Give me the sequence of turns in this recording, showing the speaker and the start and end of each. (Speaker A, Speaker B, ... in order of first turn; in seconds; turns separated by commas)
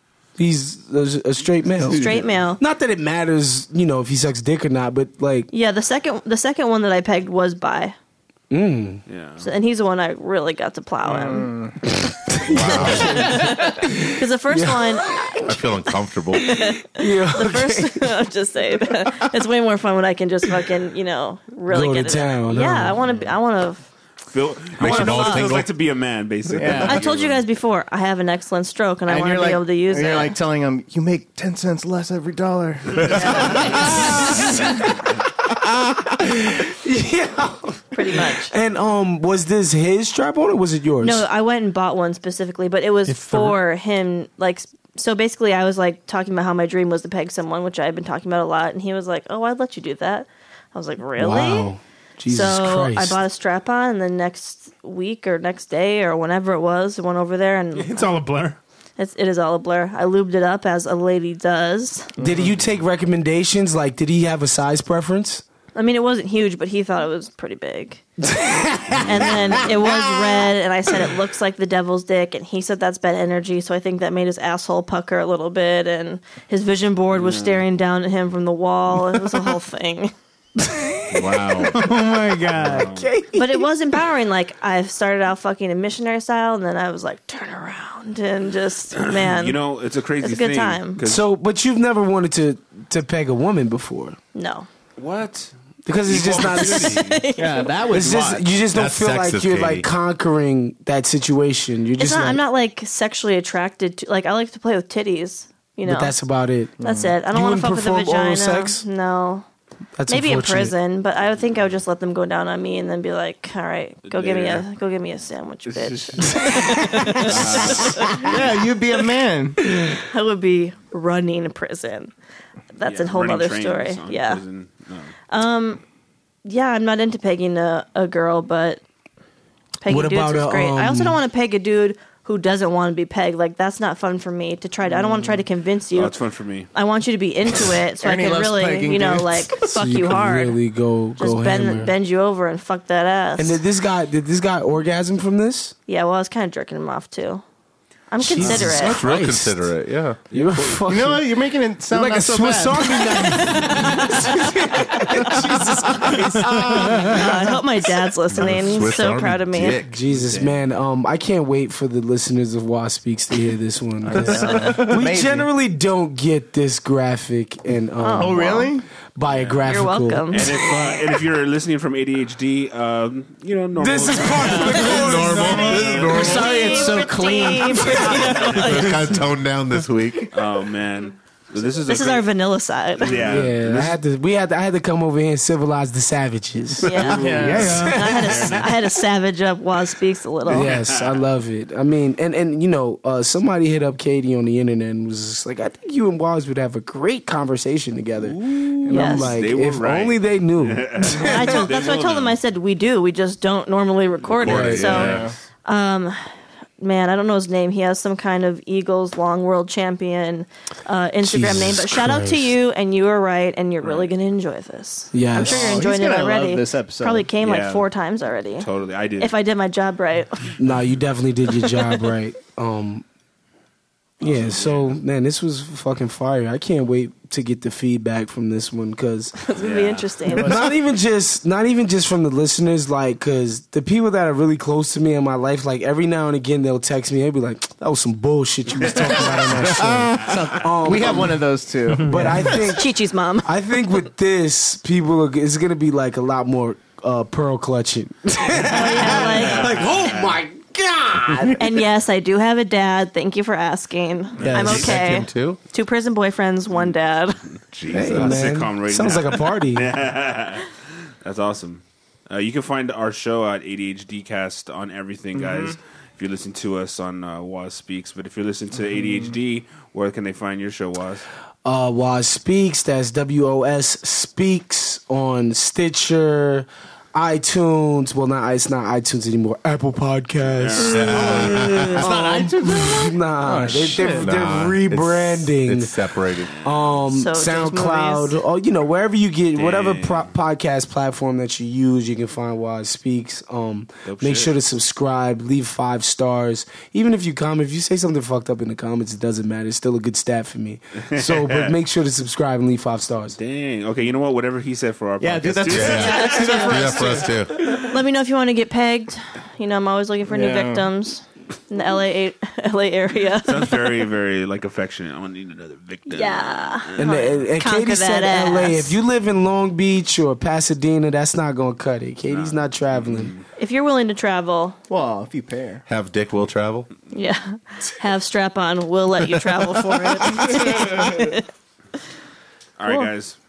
Speaker A: 0.4-5.5, Speaker B: 1.8-2.2, Speaker C: 1.9-2.6, Speaker C: 5.5-8.0, Speaker A: 8.5-9.0, Speaker D: 9.1-9.5, Speaker C: 9.4-11.5, Speaker B: 11.1-11.8, Speaker A: 12.0-15.8, Speaker E: 12.4-13.4, Speaker C: 12.7-15.2, Speaker E: 15.4-16.5, Speaker A: 16.3-18.2, Speaker C: 16.4-23.8, Speaker A: 21.7-23.0, Speaker D: 24.3-27.4, Speaker E: 24.8-25.7, Speaker C: 24.8-25.5, Speaker B: 26.5-27.0, Speaker C: 26.9-30.3, Speaker B: 29.1-34.8, Speaker D: 33.0-35.2, Speaker E: 33.0-34.2, Speaker C: 33.1-33.7, Speaker A: 33.8-34.9, Speaker E: 35.5-36.2, Speaker A: 36.2-41.2, Speaker C: 37.9-38.5, Speaker C: 41.0-51.7, Speaker F: 43.1-43.6, Speaker A: 51.2-53.2, Speaker C: 52.3-58.1, Speaker F: 57.8-58.6, Speaker C: 59.0-62.1, Speaker B: 62.2-62.6, Speaker A: 62.2-65.4, Speaker C: 65.8-68.0, Speaker A: 68.2-70.4, Speaker C: 69.0-80.1, Speaker D: 77.1-77.7, Speaker A: 80.6-81.6, Speaker E: 81.1-81.7, Speaker D: 81.3-81.8, Speaker F: 81.7-82.9, Speaker D: 82.5-83.2, Speaker A: 82.6-83.7, Speaker C: 83.3-89.6, Speaker D: 89.0-91.3, Speaker C: 90.2-91.0, Speaker A: 91.0-94.2, Speaker C: 94.3-94.7, Speaker D: 95.0-95.5, Speaker A: 95.9-97.0, Speaker D: 96.1-97.3, Speaker C: 96.3-97.7, Speaker B: 97.4-98.5, Speaker A: 97.9-102.4, Speaker E: 98.7-99.9, Speaker C: 102.0-106.2, Speaker A: 105.8-108.8, Speaker B: 106.8-107.2, Speaker C: 106.8-109.5, Speaker A: 110.0-110.8, Speaker C: 110.1-118.4, Speaker D: 114.0-114.7, Speaker D: 115.7-116.4, Speaker A: 116.3-118.4, Speaker E: 117.4-118.0, Speaker B: 117.4-119.6, Speaker C: 120.0-122.1, Speaker C: 122.8-124.4, Speaker D: 122.8-125.1, Speaker C: 125.3-125.8, Speaker C: 126.5-128.8, Speaker C: 129.8-136.2, Speaker A: 129.9-131.2, Speaker B: 135.0-135.3, Speaker D: 135.9-136.7, Speaker C: 136.7-140.6, Speaker B: 138.0-139.8, Speaker A: 139.7-141.9, Speaker C: 141.2-143.6, Speaker A: 143.4-145.8, Speaker C: 145.9-147.4, Speaker C: 148.1-149.0, Speaker A: 148.2-149.7, Speaker E: 148.4-150.3, Speaker A: 150.3-151.3, Speaker B: 150.9-153.4, Speaker A: 151.9-157.9, Speaker C: 153.0-155.6, Speaker E: 156.1-157.2, Speaker C: 156.4-159.8, Speaker E: 158.3-160.0, Speaker A: 159.7-170.9, Speaker D: 160.1-160.6, Speaker B: 164.1-165.5, Speaker C: 164.3-164.8, Speaker C: 168.0-168.4, Speaker B: 168.2-168.8, Speaker D: 169.2-169.7, Speaker C: 169.7-170.9, Speaker D: 170.3-176.7, Speaker A: 173.8-179.2, Speaker B: 174.3-174.9, Speaker E: 174.8-176.9, Speaker C: 175.4-179.1, Speaker D: 178.1-178.8, Speaker E: 178.6-180.3, Speaker D: 180.3-182.3, Speaker C: 181.9-183.5, Speaker D: 183.0-183.9, Speaker A: 183.1-188.7, Speaker D: 186.8-188.7, Speaker C: 186.8-190.7, Speaker B: 187.1-187.8, Speaker F: 187.4-188.2, Speaker D: 190.5-191.2, Speaker A: 190.5-201.7, Speaker D: 198.2-202.4, Speaker C: 198.9-199.3, Speaker C: 201.2-205.1, Speaker E: 204.4-205.3, Speaker A: 204.4-205.1, Speaker B: 204.8-205.3, Speaker C: 205.7-218.7, Speaker A: 211.2-212.5, Speaker D: 213.8-214.1, Speaker A: 215.1-215.8, Speaker B: 215.4-217.3, Speaker D: 217.4-217.9, Speaker D: 218.6-219.4, Speaker C: 219.2-220.6, Speaker A: 220.6-223.1, Speaker A: 224.2-229.4, Speaker D: 224.2-225.0, Speaker C: 229.4-230.6, Speaker D: 229.6-230.1, Speaker B: 230.3-230.6, Speaker A: 230.3-241.4, Speaker B: 238.8-242.8, Speaker E: 239.6-240.4, Speaker F: 241.9-242.6, Speaker A: 242.0-242.9, Speaker C: 242.6-243.5, Speaker A: 243.4-251.8, Speaker C: 248.6-249.9, Speaker D: 249.0-250.4, Speaker B: 251.3-251.6, Speaker C: 251.6-257.4, Speaker D: 254.4-254.9, Speaker A: 254.4-255.2, Speaker E: 254.5-255.6, Speaker E: 257.7-258.5, Speaker D: 257.8-271.2, Speaker A: 257.9-259.9, Speaker B: 265.3-265.8, Speaker B: 268.9-269.3, Speaker A: 271.6-286.0, Speaker D: 280.4-281.6, Speaker E: 280.8-282.2, Speaker B: 281.0-284.3, Speaker E: 283.5-286.6, Speaker D: 286.5-286.9, Speaker A: 286.6-303.4, Speaker C: 287.1-288.4, Speaker D: 289.6-290.3, Speaker D: 294.1-294.6, Speaker D: 301.1-301.8, Speaker D: 303.4-307.4, Speaker B: 305.2-307.4, Speaker E: 305.7-307.6, Speaker C: 305.9-307.0, Speaker C: 307.6-313.8, Speaker B: 310.3-310.9, Speaker D: 313.4-317.4, Speaker C: 316.1-319.0, Speaker A: 317.0-323.4, Speaker D: 322.3-323.4, Speaker C: 323.6-324.8, Speaker B: 324.9-325.9, Speaker E: 325.9-326.9, Speaker C: 327.1-331.5, Speaker E: 329.6-331.3, Speaker D: 332.8-333.4, Speaker C: 332.9-333.1